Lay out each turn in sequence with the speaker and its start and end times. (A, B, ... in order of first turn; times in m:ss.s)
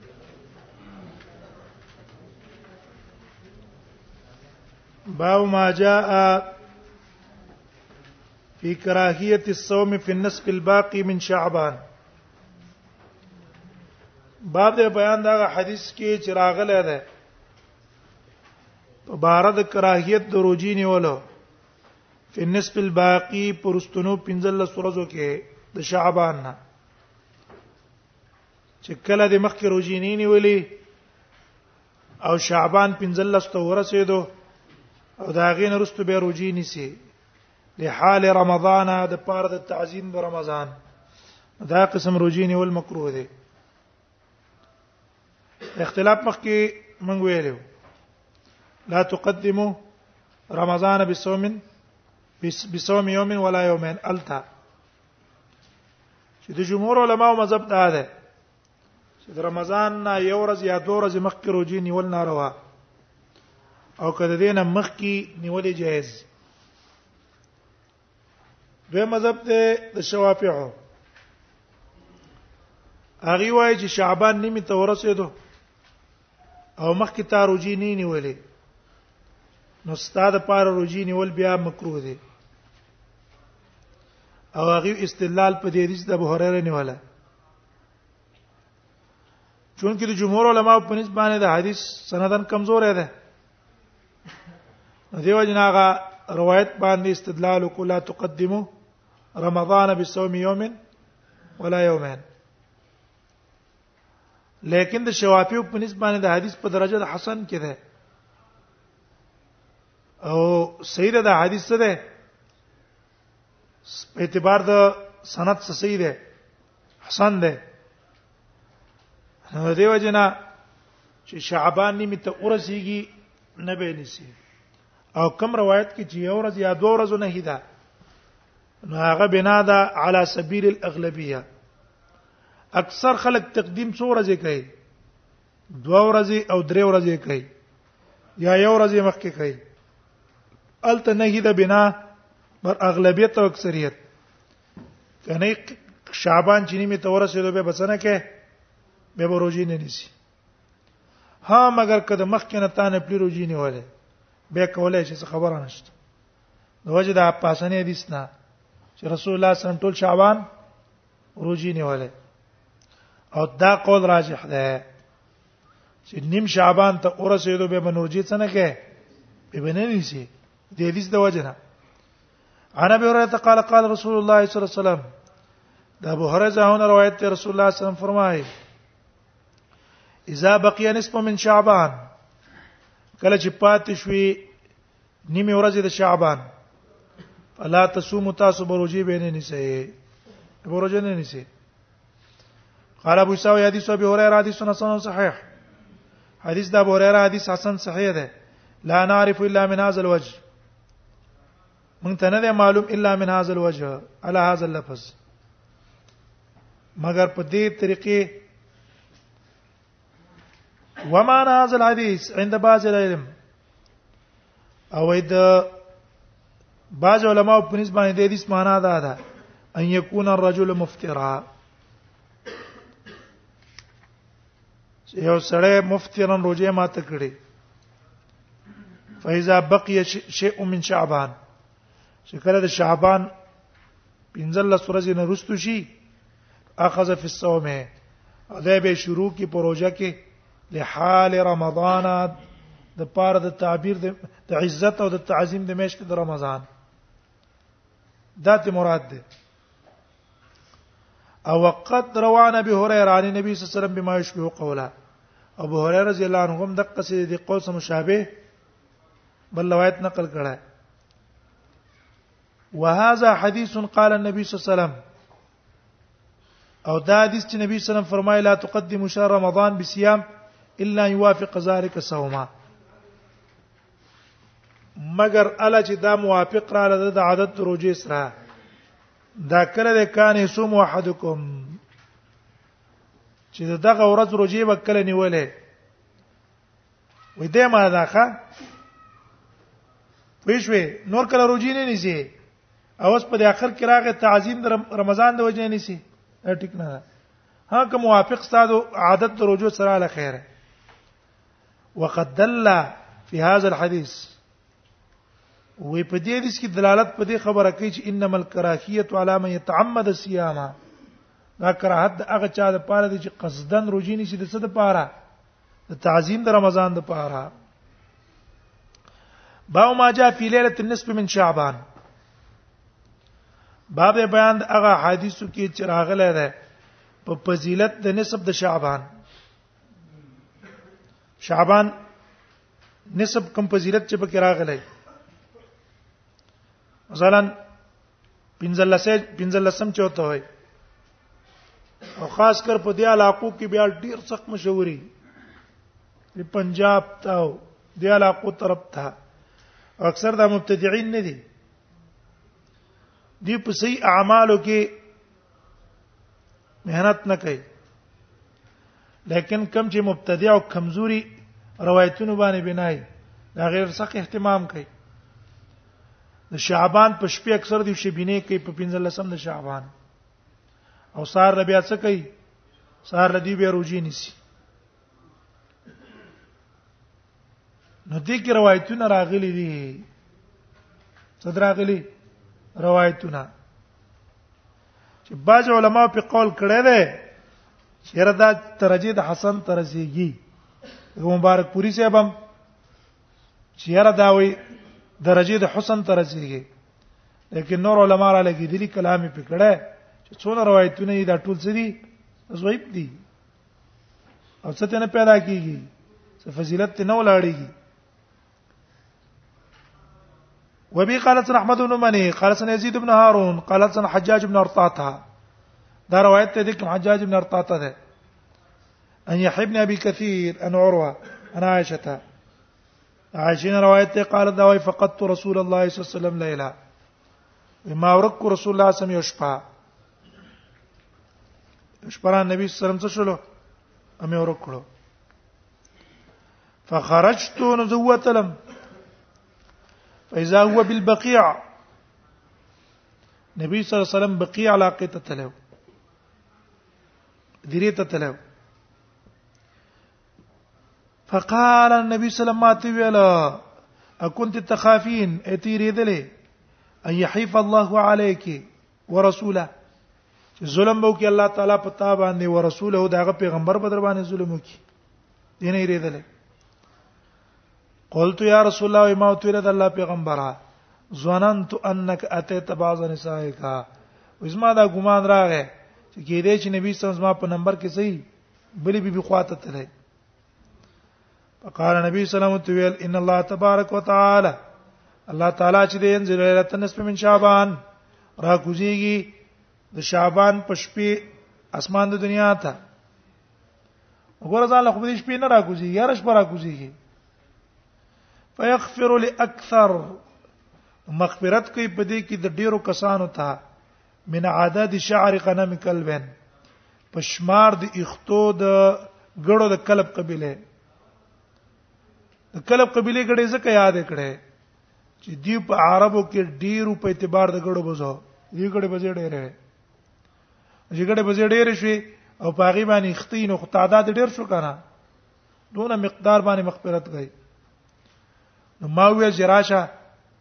0:05.1-0:06.5 A
0:08.6-0:11.8 A
0:14.5-0:17.0 A
0:19.1-0:21.2 A
0:22.3-0:26.6 A
0:28.8-0:30.7 A
0:32.2-0:34.3 A
0:35.2-0:36.9 A
0:37.8-0:40.7 A
0:41.6-0:43.3 A
0:45.8-0:47.6 A
0:48.9-0:49.8 A
0:50.5-0:51.6 A
0:52.4-0:54.4 A
0:56.4-0:58.1 A
0:59.2-1:02.6 A
1:04.0-1:06.3 A
1:08.9-1:10.8 A
1:13.2-1:15.3 A
1:16.8-1:18.4 A
1:19.8-1:22.2 A
1:24.6-1:27.0 A
1:29.8-1:33.1 A
1:35.1-1:38.7 A
1:39.4-1:40.8 A
1:41.6-1:42.2 A
1:44.6-1:47.8 A
1:50.2-1:52.0 A
1:53.9-1:56.2 A
1:57.0-1:57.6 A
1:59.5-2:00.4 A
2:01.3-2:04.4 A
2:05.2-2:07.6 A
2:08.8-2:11.4 A
2:12.8-2:14.7 A
2:15.8-2:17.5 A
2:18.4-2:19.6 A
2:20.8-2:22.0 A
2:22.6-2:24.0 A
2:25.2-2:28.3 A
2:29.2-2:30.1 A
2:31.4-2:33.9 A
2:34.5-2:36.0 A
2:36.8-2:38.3 A
2:39.0-2:40.4 A
2:41.4-2:42.1 A
2:43.3-2:44.8 A
2:46.1-2:48.8 A
2:49.5-2:51.6 A
2:52.8-2:55.0 A
2:56.0-2:58.5 A
3:00.3-3:02.0 A
3:03.2-3:04.4 A
3:05.3-3:06.4 A
3:07.6-3:09.9 A
3:10.6-3:11.5 A
3:13.0-3:15.4 A
3:16.4-3:18.3 A
3:18.9-3:20.4 A
3:22.0-3:25.2 A
3:27.0-3:28.4 A
3:31.0-3:33.3 A
3:34.9-3:35.7 A
3:36.9-3:39.2 A
3:39.8-3:41.4 A
3:45.1-3:47.4 A
3:49.2-3:51.4 A
3:52.3-3:53.3 A
3:54.3-3:55.9 A
3:56.8-3:57.9 A
3:58.5-4:00.2 A
4:00.7-4:02.4 A
4:03.0-4:06.7 A
4:08.4-4:09.2 A
4:11.5-4:14.9 A
4:15.6-4:18.3 A
4:19.5-4:20.6 A
4:22.8-4:25.0 A
4:26.9-4:30.2 A
4:30.8-4:32.5 A
4:35.0-4:38.3 A
4:39.4-4:41.8 A
4:43.5-4:45.5 A
4:47.4-4:48.4 A
4:50.4-4:52.3 A
4:53.0-4:57.0 A
4:57.7-5:00.4 A
5:02.0-5:04.4 A
5:05.8-5:10.8 A
5:11.6-5:15.1 A
5:15.9-5:17.5 A
5:19.7-5:21.8 A
5:23.9-5:26.5 A
5:27.2-5:29.1 A
5:31.4-5:31.9 A
5:33.1-5:34.8 A
5:37.1-5:37.5 A
5:38.6-5:40.4 A
5:42.2-5:45.0 A
5:46.4-5:49.1 A
5:50.0-5:51.4 A
5:53.4-5:54.9 A
5:56.8-5:57.6 A
5:59.3-6:01.3 A
6:01.8-6:03.0 A
6:03.6-6:04.9 A
6:06.5-6:09.9 A
6:11.2-6:12.3 A
6:13.0-6:14.4 A
6:18.1-6:20.1 A
6:21.4-6:22.0 A
6:22.8-6:23.5 A
6:25.3-6:27.3 A
6:28.1-6:30.4 A
6:31.2-6:32.4 A
6:33.8-6:34.6 A
6:35.2-6:36.7 A
6:37.5-6:43.2 A
6:44.6-6:45.9 A
6:46.4-6:47.7 A
6:50.9-6:55.2 A
6:56.1-6:58.0 A
6:59.3-7:02.2 A
7:03.3-7:06.7 A
7:07.9-7:09.6 A
7:12.0-7:13.4 A
7:14.2-7:14.9 A
7:16.9-7:18.6 A
7:20.3-7:21.6 A
7:23.6-7:25.6 A
7:27.7-7:28.4 A
7:31.3-7:33.6 A
7:34.2-7:36.3 A
7:37.1-7:39.7 A
7:40.6-7:44.8 A
7:45.6-7:46.2 A
7:48.1-7:50.6 A
7:51.1-7:53.9 A
7:54.4-7:58.2 A
7:58.8-7:59.9 A
8:01.6-8:04.6 A
8:05.3-8:07.8 A
8:08.4-8:09.3 A
8:09.9-8:12.8 A
8:14.4-8:17.0 A
8:18.6-8:20.2 A
8:21.1-8:23.6 A
8:24.3-8:26.3 A
8:27.1-8:30.6 A
8:32.5-8:34.4 A
8:35.2-8:39.6 A
8:40.9-8:44.8 A
8:45.7-8:47.3 A
8:48.8-8:49.9 A